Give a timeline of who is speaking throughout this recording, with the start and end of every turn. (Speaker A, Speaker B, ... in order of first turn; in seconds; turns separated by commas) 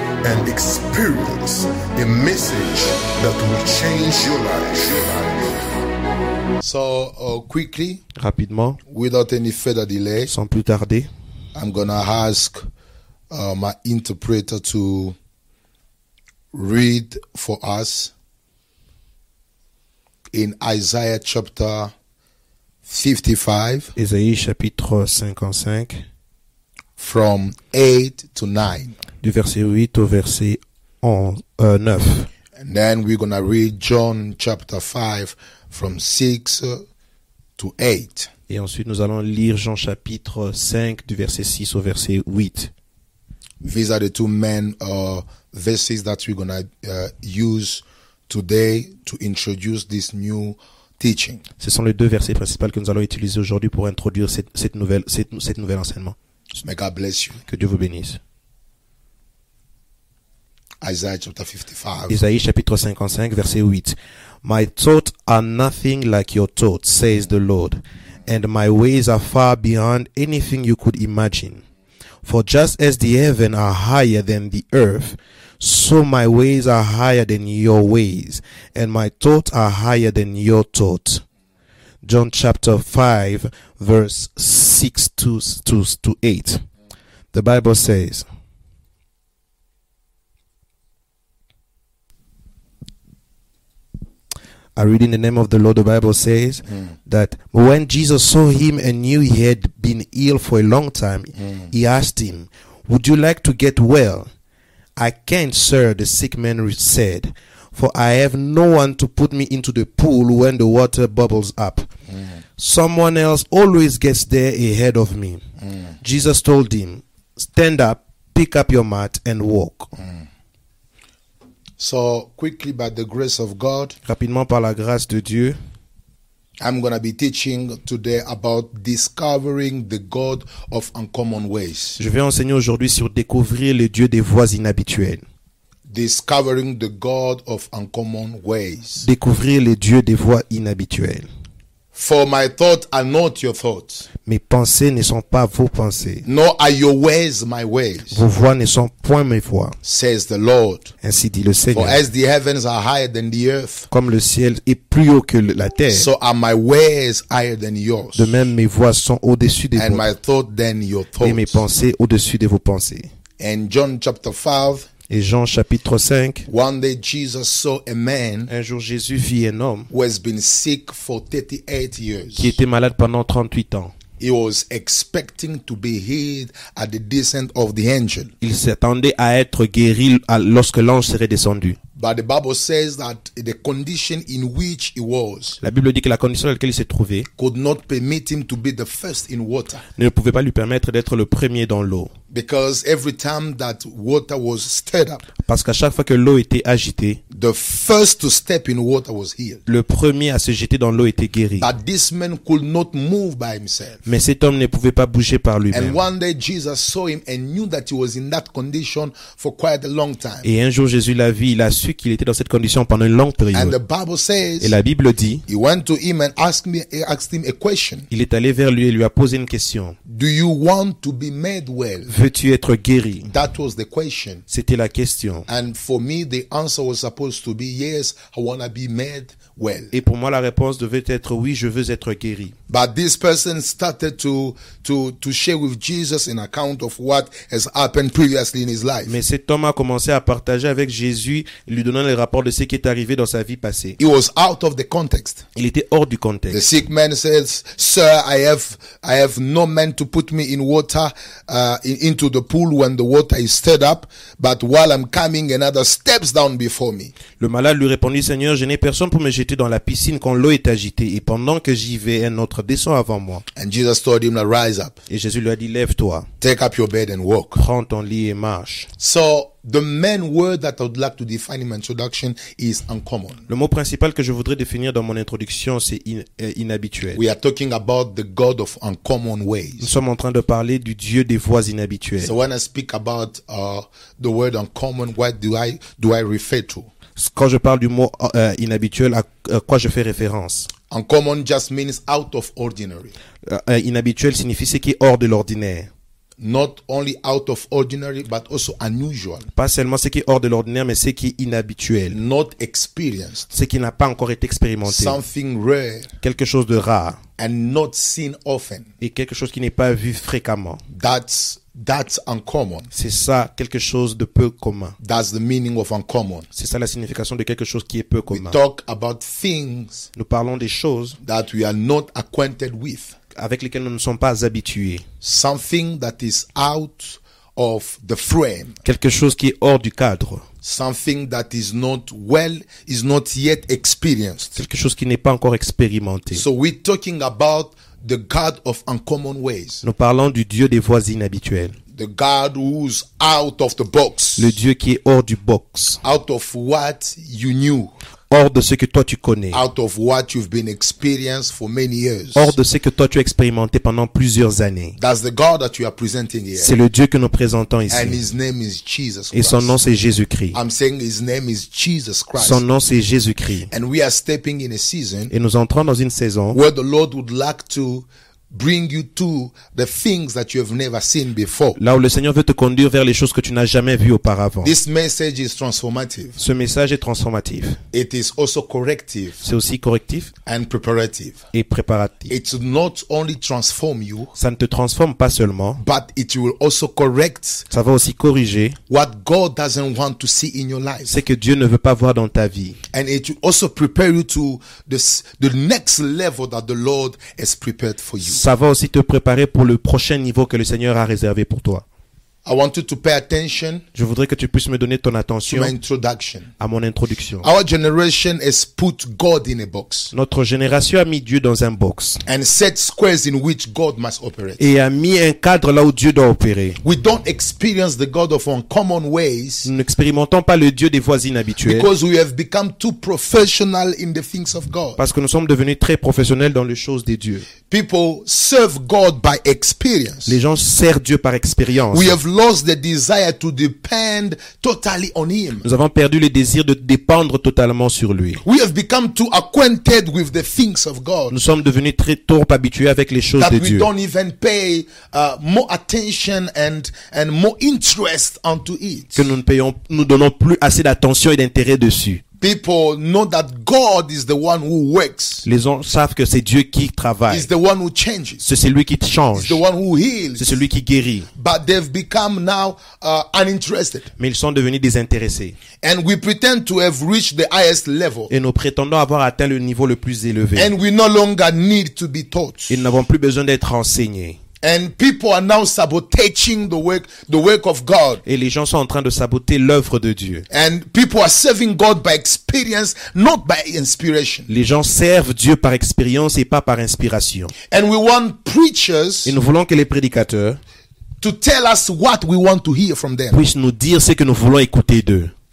Speaker A: 0.2-5.7, Speaker B: 6.6-8.0, Speaker C: 8.2-8.8, Speaker B: 8.9-10.3, Speaker C: 10.3-11.1, Speaker B: 11.5-12.7, Speaker B: 13.3-15.2, Speaker B: 16.5-18.1, Speaker B: 20.3-21.9, Speaker B: 22.9-23.9, Speaker C: 23.9-26.0, Speaker B: 27.0-28.9, Speaker C: 29.2-32.3, Speaker B: 32.6-36.8, Speaker B: 37.6-38.3, Speaker C: 38.5-42.7, Speaker B: 43.6-51.4, Speaker C: 51.6-56.1, Speaker B: 56.6-57.4, Speaker C: 57.5-58.2, Speaker B: 60.8-62.2, Speaker C: 62.1-71.6, Speaker C: 72.2-81.2, Speaker C: 82.0-86.6, Speaker C: 87.3-88.2, Speaker C: 94.8-104.3, Speaker C: 105.0-111.9, Speaker C: 112.6-115.4, Speaker C: 116.0-119.9, Speaker B: 121.8-123.9, Speaker C: 124.0-125.6, Speaker B: 126.6-132.0, Speaker C: 132.0-135.2, Speaker B: 135.9-139.1, Speaker C: 139.0-141.3, Speaker B: 141.9-144.1, Speaker C: 144.2-146.2, Speaker B: 146.2-148.2, Speaker C: 148.1-149.8, Speaker B: 149.8-150.9, Speaker C: 151.0-152.0, Speaker B: 151.7-153.9, Speaker C: 153.9-156.1, Speaker B: 155.9-158.3, Speaker C: 158.2-160.0, Speaker B: 159.7-161.6, Speaker C: 161.2-163.1, Speaker B: 163.4-164.9, Speaker C: 165.1-166.4, Speaker B: 166.5-168.5, Speaker C: 168.5-169.9, Speaker B: 169.9-172.5, Speaker C: 172.3-173.9, Speaker B: 174.2-178.3, Speaker C: 178.4-181.8, Speaker B: 181.9-185.6, Speaker C: 185.6-187.3, Speaker B: 187.4-189.8, Speaker C: 189.9-192.1, Speaker B: 192.3-195.2, Speaker C: 195.4-197.2, Speaker B: 197.3-199.6, Speaker C: 199.7-201.7, Speaker B: 201.6-204.0, Speaker C: 204.1-206.0, Speaker B: 205.7-210.4, Speaker C: 210.4-213.7, Speaker B: 213.5-214.7, Speaker C: 214.6-215.4, Speaker B: 215.5-218.1, Speaker C: 218.1-219.9, Speaker B: 220.1-222.1, Speaker C: 222.1-223.3, Speaker B: 223.2-224.4, Speaker C: 224.5-225.4, Speaker B: 225.5-229.9, Speaker C: 229.9-232.5, Speaker B: 232.7-239.2, Speaker C: 239.1-244.0, Speaker B: 244.0-245.4, Speaker C: 245.6-246.6, Speaker B: 246.5-257.1, Speaker C: 257.4-263.4, Speaker B: 263.6-264.9, Speaker C: 265.1-266.2, Speaker B: 266.4-267.6, Speaker C: 267.5-268.9, Speaker B: 269.0-273.4, Speaker C: 273.5-277.2, Speaker B: 277.1-279.9, Speaker C: 279.8-282.3, Speaker B: 282.2-286.9, Speaker C: 287.2-290.7, Speaker B: 290.9-293.1, Speaker C: 293.4-295.9, Speaker B: 296.4-299.5, Speaker C: 299.6-302.2, Speaker B: 302.1-303.5, Speaker C: 303.5-305.2, Speaker B: 304.9-306.1, Speaker C: 306.2-307.2, Speaker B: 307.4-308.9, Speaker C: 309.0-310.8, Speaker B: 310.9-312.9, Speaker C: 312.9-314.9, Speaker B: 315.0-316.5, Speaker C: 316.5-318.6, Speaker B: 318.3-320.1, Speaker C: 320.1-321.1, Speaker B: 321.2-323.1, Speaker C: 323.3-325.0, Speaker B: 325.2-328.8, Speaker C: 328.8-330.4, Speaker B: 330.6-334.6, Speaker C: 334.6-336.4, Speaker B: 336.3-339.8, Speaker C: 339.8-341.8, Speaker B: 341.9-344.5, Speaker C: 344.4-346.0, Speaker B: 346.0-347.9, Speaker C: 348.3-349.6, Speaker B: 349.5-352.5, Speaker C: 352.3-354.9, Speaker B: 355.0-356.7, Speaker C: 356.6-358.2, Speaker B: 357.9-359.7, Speaker C: 359.3-360.6, Speaker B: 360.5-362.6, Speaker C: 362.4-363.7, Speaker B: 363.7-365.3, Speaker C: 365.3-366.6, Speaker B: 366.5-371.8, Speaker C: 371.8-374.7, Speaker B: 374.6-376.4, Speaker C: 376.4-377.8, Speaker B: 377.9-379.4, Speaker C: 379.4-380.3, Speaker B: 380.4-381.4, Speaker C: 381.5-382.3, Speaker B: 382.3-384.3, Speaker C: 384.4-385.8, Speaker B: 385.8-387.6, Speaker C: 387.7-388.8, Speaker B: 388.9-391.1, Speaker C: 391.1-392.8, Speaker B: 392.9-398.4, Speaker C: 398.2-401.8, Speaker B: 402.4-403.8, Speaker C: 403.9-405.7, Speaker B: 405.5-406.5, Speaker C: 406.6-407.4, Speaker B: 407.4-410.1, Speaker C: 410.1-412.2, Speaker B: 412.2-414.6, Speaker C: 414.6-416.8, Speaker B: 416.8-419.7, Speaker C: 419.6-421.9, Speaker B: 421.6-425.0, Speaker C: 425.0-427.4, Speaker B: 427.7-430.4, Speaker C: 430.2-432.1, Speaker B: 431.9-435.6, Speaker C: 435.6-438.4, Speaker B: 438.4-441.3, Speaker C: 441.3-443.9, Speaker B: 443.4-449.2, Speaker C: 449.1-452.2, Speaker B: 452.4-455.4, Speaker C: 455.4-457.5, Speaker B: 457.3-458.4, Speaker C: 458.4-459.6, Speaker B: 459.4-460.6, Speaker C: 460.4-461.3, Speaker B: 461.4-464.1, Speaker C: 464.2-465.6, Speaker B: 465.8-468.3, Speaker C: 468.3-470.7, Speaker B: 470.6-472.8, Speaker C: 472.7-474.4, Speaker B: 474.6-478.2, Speaker C: 478.2-480.4, Speaker B: 480.5-484.5, Speaker C: 484.5-487.5, Speaker B: 487.7-489.3, Speaker C: 489.2-490.6, Speaker B: 491.2-493.4, Speaker C: 493.3-495.3